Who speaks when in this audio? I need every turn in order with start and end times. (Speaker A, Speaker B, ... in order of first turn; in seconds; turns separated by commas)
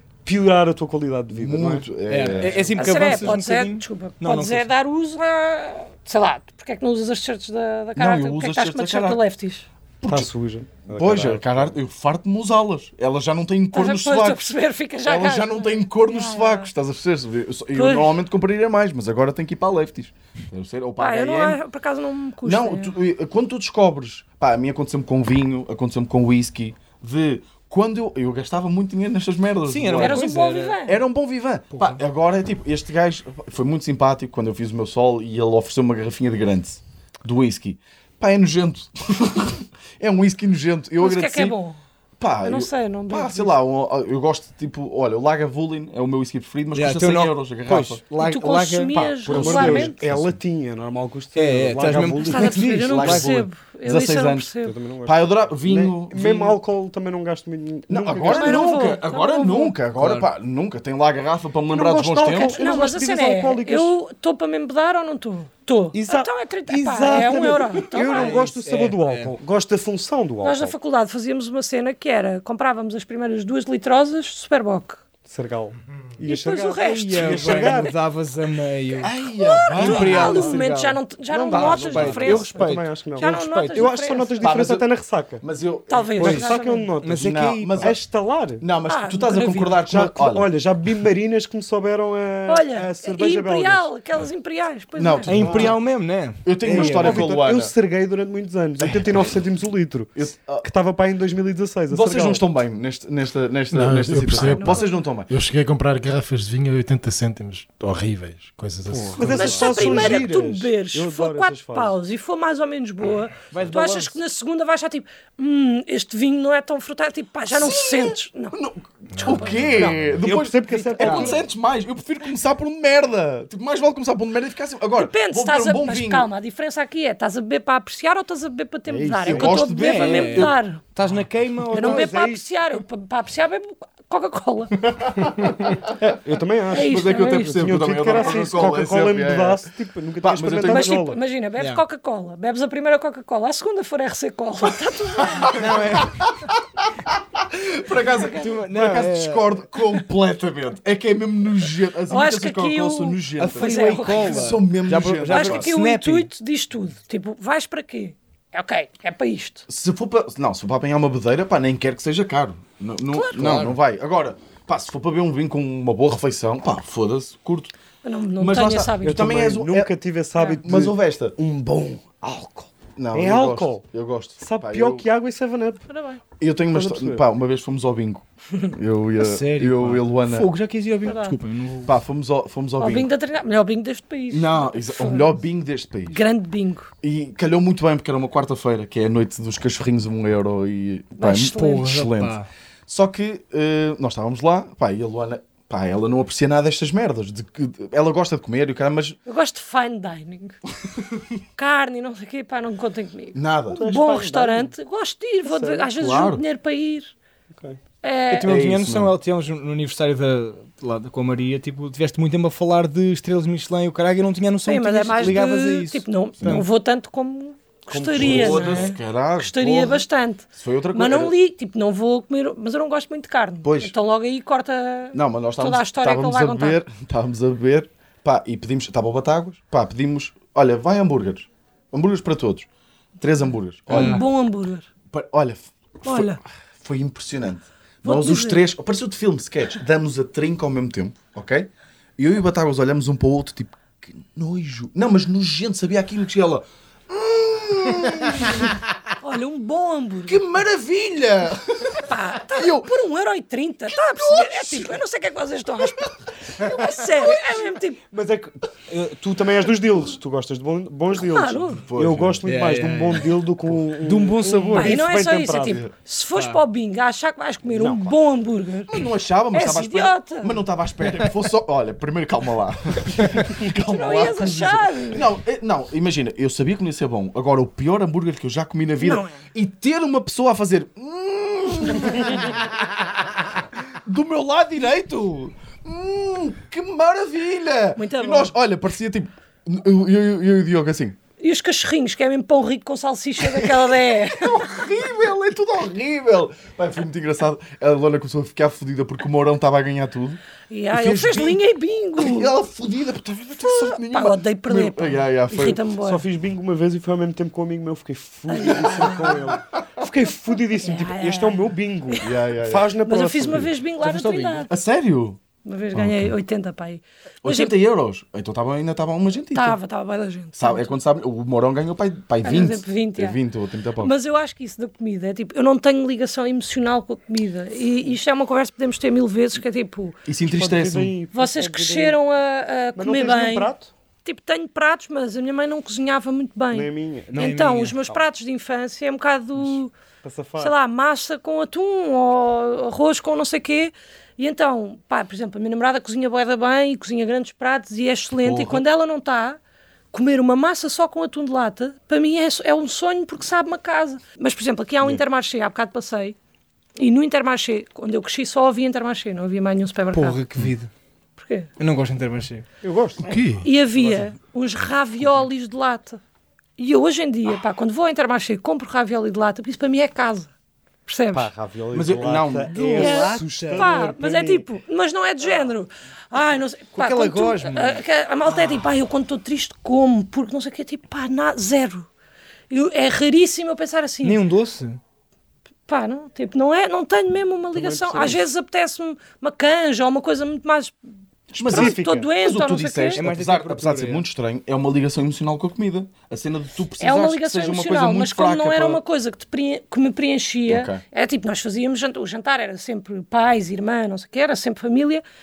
Speaker A: 0.2-1.9, Speaker B: 1.3-2.8, Speaker C: 2.1-4.7, Speaker D: 2.8-9.7, Speaker B: 8.0-9.2, Speaker B: 10.0-10.3, Speaker A: 10.1-11.8, Speaker B: 10.9-14.5, Speaker D: 13.7-16.7, Speaker B: 15.0-21.6, Speaker D: 17.7-18.1, Speaker D: 21.0-22.9, Speaker B: 22.4-30.3, Speaker C: 29.7-30.8, Speaker D: 29.9-31.0, Speaker B: 30.9-41.6, Speaker D: 41.0-41.8, Speaker B: 42.2-48.0, Speaker D: 42.4-43.5, Speaker C: 46.7-49.9, Speaker D: 48.2-50.0, Speaker B: 49.3-50.4, Speaker A: 49.3-52.7, Speaker C: 51.4-53.4, Speaker D: 52.2-54.7, Speaker B: 52.4-54.5, Speaker A: 54.6-58.8, Speaker B: 55.0-56.6, Speaker B: 57.9-62.6, Speaker D: 58.2-59.8, Speaker C: 60.0-60.3, Speaker A: 61.7-63.9, Speaker D: 62.3-68.5, Speaker A: 65.9-70.8, Speaker C: 67.1-67.4, Speaker C: 68.1-69.3, Speaker D: 70.4-75.0, Speaker A: 75.3-78.0, Speaker D: 76.2-77.9, Speaker C: 76.8-79.1, Speaker B: 79.0-80.5, Speaker D: 79.4-84.6, Speaker C: 79.8-81.0, Speaker A: 80.1-80.6, Speaker A: 81.3-85.4, Speaker C: 81.5-83.9, Speaker B: 81.5-82.3, Speaker B: 84.4-84.9, Speaker B: 85.4-86.5, Speaker D: 85.9-86.9, Speaker A: 86.2-87.2, Speaker C: 86.2-88.0, Speaker B: 87.1-88.0, Speaker A: 87.8-88.6, Speaker B: 88.6-90.5, Speaker D: 88.9-89.8, Speaker A: 89.8-93.9, Speaker D: 92.5-95.4, Speaker B: 95.0-95.8, Speaker C: 95.3-97.3, Speaker A: 95.3-95.8, Speaker B: 96.4-97.7, Speaker A: 96.7-102.4, Speaker B: 98.8-99.3, Speaker B: 100.2-100.7, Speaker B: 101.9-105.3, Speaker E: 103.7-109.5, Speaker D: 104.2-104.9, Speaker C: 108.9-110.2, Speaker A: 109.2-112.0, Speaker D: 109.3-118.6, Speaker C: 113.5-114.2, Speaker B: 117.5-126.3, Speaker E: 119.1-120.0, Speaker D: 119.2-119.6, Speaker A: 119.7-121.4, Speaker C: 121.0-121.4, Speaker D: 125.0-130.8, Speaker A: 128.9-129.6, Speaker B: 129.2-130.6, Speaker C: 129.4-132.2, Speaker A: 131.7-132.4, Speaker D: 131.7-134.8, Speaker B: 135.1-135.5, Speaker A: 136.0-141.2, Speaker D: 136.7-138.3, Speaker B: 136.8-139.7, Speaker B: 140.2-140.9, Speaker D: 140.6-145.8, Speaker B: 145.2-155.7, Speaker C: 145.4-146.2, Speaker D: 148.1-148.5, Speaker C: 148.3-149.5, Speaker D: 152.1-154.6, Speaker C: 153.4-156.3, Speaker D: 155.3-159.7, Speaker B: 159.7-167.7, Speaker D: 163.1-163.6, Speaker C: 163.3-163.8, Speaker D: 168.0-169.4, Speaker B: 168.4-169.9, Speaker A: 169.0-173.8, Speaker D: 170.4-170.6, Speaker B: 170.6-171.4, Speaker B: 173.0-175.1, Speaker A: 174.4-175.9, Speaker D: 175.9-176.2, Speaker B: 176.4-180.5, Speaker A: 176.7-177.2, Speaker C: 179.2-181.9, Speaker D: 181.1-181.4, Speaker B: 181.8-183.1, Speaker D: 182.8-185.4, Speaker B: 184.3-186.2, Speaker D: 186.1-186.9, Speaker B: 187.0-199.2, Speaker D: 191.2-191.9, Speaker C: 191.6-192.5, Speaker D: 199.3-200.6, Speaker D: 201.6-207.1, Speaker B: 203.3-203.8, Speaker A: 203.7-204.7, Speaker A: 205.5-205.9, Speaker B: 205.9-206.4, Speaker A: 207.5-207.8, Speaker D: 208.0-208.5, Speaker C: 208.3-216.7, Speaker B: 208.4-209.2, Speaker D: 214.7-226.8, Speaker A: 217.9-218.9, Speaker B: 218.2-221.3, Speaker B: 223.6-223.9, Speaker B: 225.1-232.7, Speaker B: 233.2-234.3, Speaker C: 233.9-234.2, Speaker D: 233.9-234.9, Speaker B: 235.1-248.8, Speaker D: 236.0-236.4, Speaker D: 238.0-238.6, Speaker D: 249.2-250.4, Speaker B: 250.3-252.9, Speaker D: 252.1-258.0, Speaker B: 253.9-255.0, Speaker B: 255.8-257.0, Speaker A: 258.1-265.9, Speaker D: 261.1-261.8, Speaker B: 261.8-262.4, Speaker C: 262.4-265.0, Speaker D: 264.7-269.0, Speaker C: 266.4-266.6, Speaker A: 267.7-268.1, Speaker B: 268.9-283.5, Speaker D: 269.5-270.6, Speaker D: 273.8-275.2, Speaker D: 279.0-279.4, Speaker B: 284.1-291.2, Speaker D: 288.0-288.5, Speaker D: 291.4-294.7, Speaker B: 294.3-300.4, Speaker D: 300.7-302.5, Speaker B: 300.9-301.6, Speaker B: 302.2-305.8, Speaker D: 303.6-306.2, Speaker A: 306.0-313.7, Speaker D: 308.5-309.4, Speaker D: 310.8-312.3, Speaker B: 312.2-312.9, Speaker D: 313.0-314.7, Speaker C: 314.0-314.7, Speaker B: 314.7-315.4, Speaker D: 315.6-317.7, Speaker B: 317.4-319.8, Speaker D: 319.5-320.9, Speaker B: 320.6-324.1, Speaker D: 322.4-323.4, Speaker D: 324.0-330.2, Speaker B: 330.2-331.1, Speaker A: 330.5-332.2, Speaker D: 331.3-333.7, Speaker A: 333.0-333.9, Speaker D: 334.2-339.9, Speaker A: 336.7-338.2, Speaker C: 337.3-338.0, Speaker A: 340.2-340.7, Speaker D: 340.6-349.6, Speaker B: 348.4-348.8, Speaker D: 350.1-356.4, Speaker D: 357.0-360.4, Speaker C: 360.1-360.9, Speaker D: 361.4-361.7, Speaker C: 361.8-362.6, Speaker A: 362.8-363.2, Speaker E: 363.2-363.7, Speaker D: 363.6-366.2, Speaker D: 366.8-370.5, Speaker D: 371.1-371.5, Speaker A: 371.3-374.7, Speaker B: 371.9-373.2, Speaker C: 372.7-373.9, Speaker D: 373.0-382.1, Speaker C: 376.9-378.0, Speaker D: 382.7-384.4, Speaker C: 384.2-385.0, Speaker D: 385.9-390.9, Speaker A: 387.7-388.5, Speaker B: 391.5-399.0, Speaker A: 391.6-392.3, Speaker D: 391.6-393.2, Speaker C: 393.2-394.2, Speaker D: 397.0-405.2, Speaker B: 400.7-401.0